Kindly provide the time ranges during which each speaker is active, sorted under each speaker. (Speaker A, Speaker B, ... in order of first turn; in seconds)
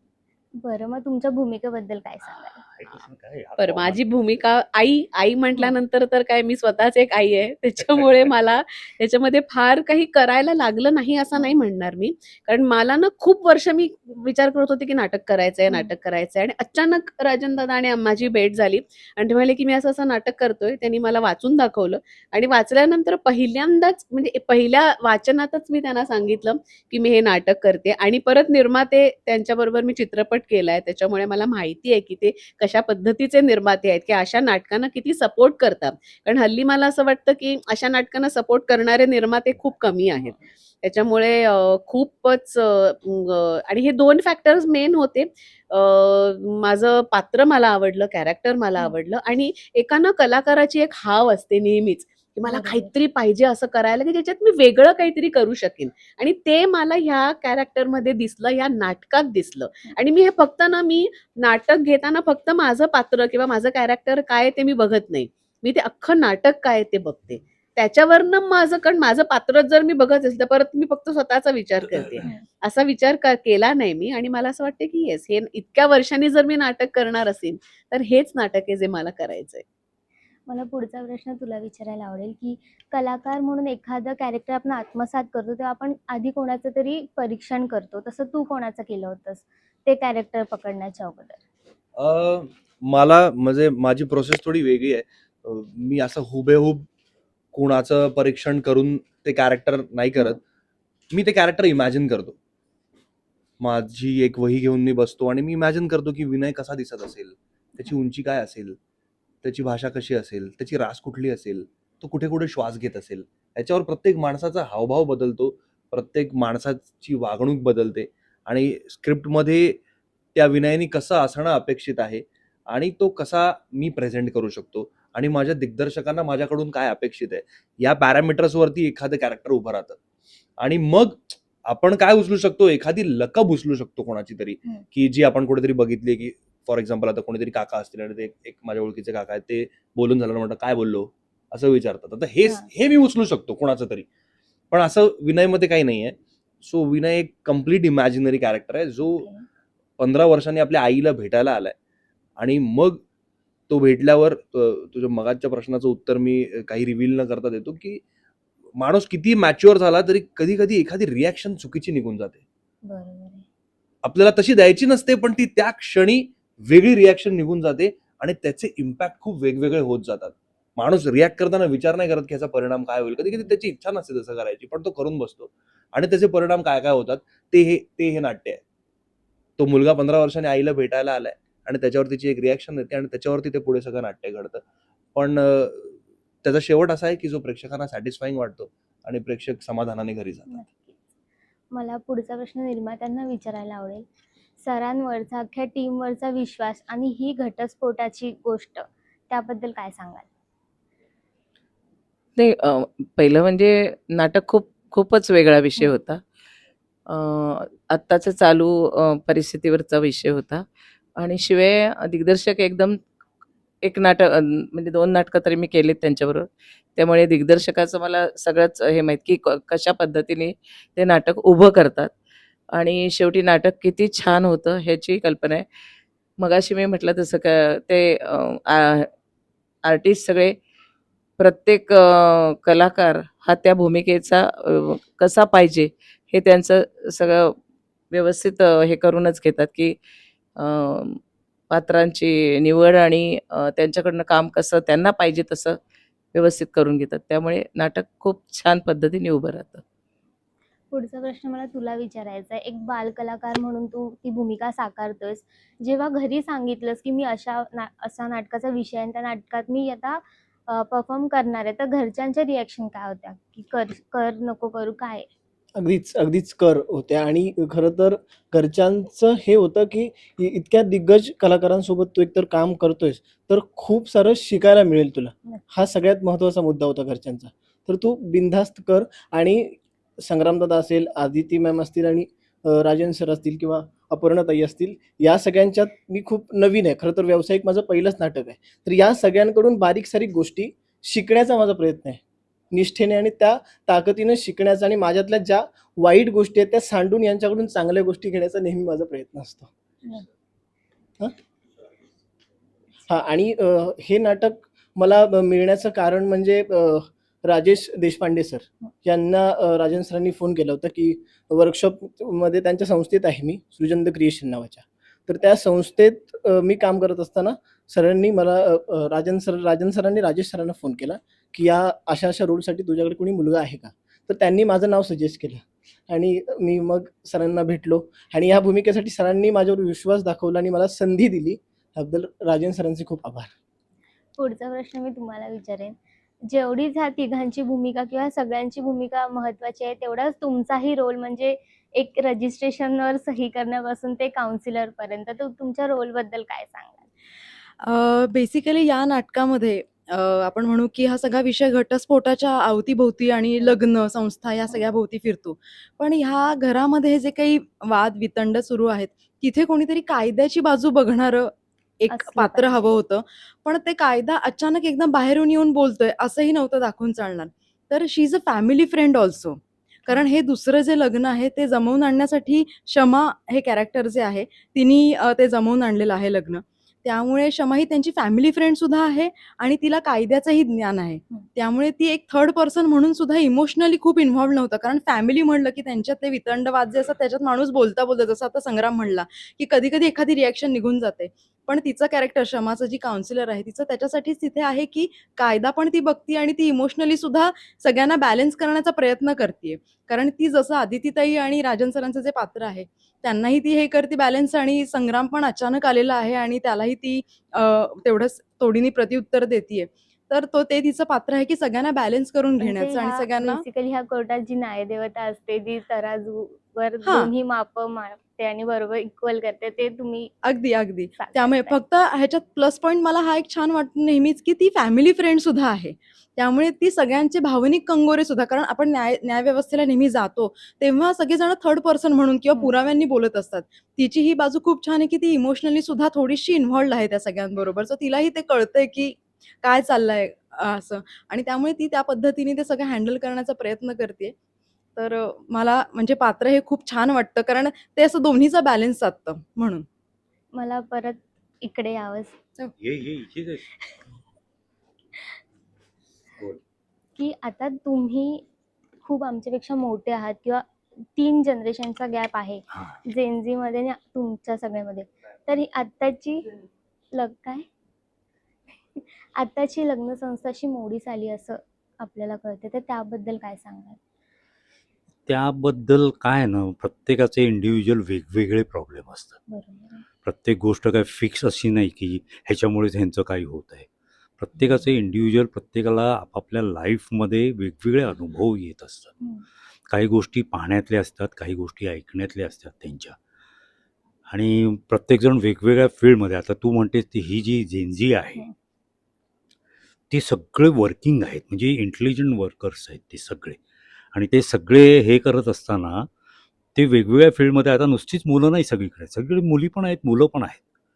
Speaker A: 0.6-2.6, 15.7-15.9, 52.5-52.9, 80.5-91.4, 149.0-149.4, 162.9-163.4, 190.5-191.0, 191.7-194.1, 194.6-200.3, 250.9-265.3, 334.4-347.1, 362.1-362.9, 412.6-420.3, 421.2-421.8, 450.5-452.4, 457.1-458.4, 459.0-466.6, 467.1-467.6, 468.9-474.0, 479.5-480.0
Speaker B: 2.3-4.4, 7.8-8.3, 452.8-453.9, 475.3-479.4, 480.2-483.9, 484.4-489.1, 489.9-493.2, 494.3-498.4, 500.1-503.6, 504.1-506.1, 506.7-510.6
Speaker C: 3.6-79.6
Speaker D: 92.0-96.9, 97.5-100.4, 101.1-102.4, 103.6-108.8, 109.4-119.8, 120.3-130.0, 130.6-144.1, 144.7-149.3, 150.0-151.7, 152.4-153.0, 153.7-158.0, 158.8-162.4, 164.0-178.6, 179.6-184.6, 185.1-190.6
Speaker E: 202.3-206.2, 207.1-213.0, 213.8-222.1, 222.7-225.7, 226.4-229.1, 229.8-230.6, 231.4-237.6, 238.1-240.0, 240.6-245.8, 246.3-249.8
Speaker F: 265.8-292.2, 292.7-299.7, 303.1-333.5
Speaker G: 347.8-413.6, 417.0-417.3, 420.4-444.3, 444.9-449.9